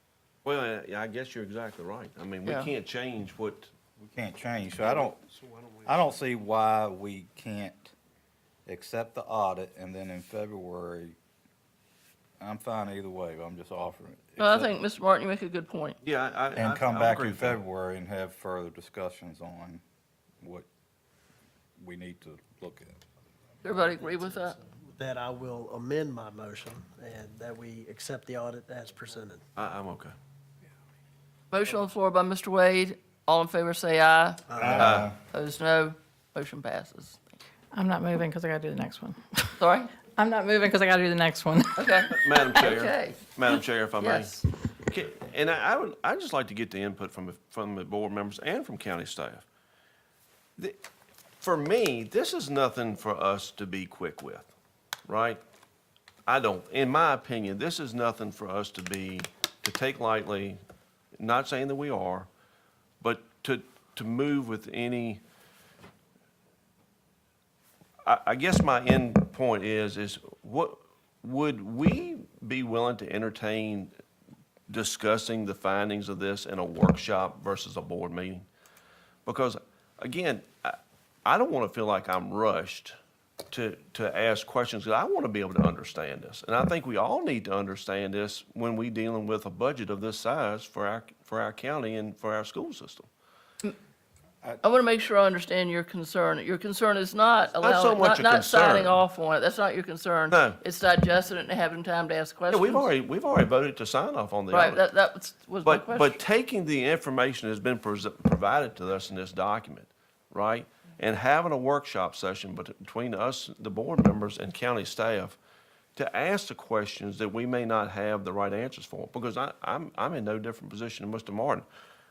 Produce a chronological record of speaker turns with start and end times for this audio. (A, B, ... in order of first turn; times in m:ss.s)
0:00.4-0:03.7 A
0:02.4-0:02.7 B
0:04.0-0:05.2 C
0:05.8-0:07.9 C
0:08.6-0:11.2 C
0:12.4-0:14.7 C
0:14.4-0:16.0 B
0:16.0-0:17.6 A
0:16.5-0:19.8 C
0:20.4-0:20.6 C
0:21.8-0:23.0 C
0:23.6-0:24.6 B
0:24.6-0:29.4 D
0:29.6-0:30.1 A
0:31.5-0:34.5 B
0:34.5-0:34.9 D
0:34.6-0:35.1 C
0:34.8-0:35.1 A
0:35.3-0:37.2 B
0:37.7-0:42.6 E
0:39.6-0:39.9 B
0:41.8-0:43.2 B
0:42.1-0:44.3 A
0:44.0-0:44.4 B
0:44.9-0:49.4 A
0:51.4-0:54.5 A
0:55.1-0:55.4 A
0:56.2-1:00.6 A
1:01.2-1:02.3 A
1:03.0-1:05.2 A
1:08.0-1:13.9 A
1:14.7-1:18.5 A
1:19.2-1:22.9 A
1:23.5-1:33.1 A
1:34.6-1:42.9 B
1:37.6-1:39.0 A
1:40.3-1:40.6 A
1:42.5-1:44.8 A
1:44.5-1:46.2 B
1:45.6-1:55.4 A
1:56.0-2:01.6 A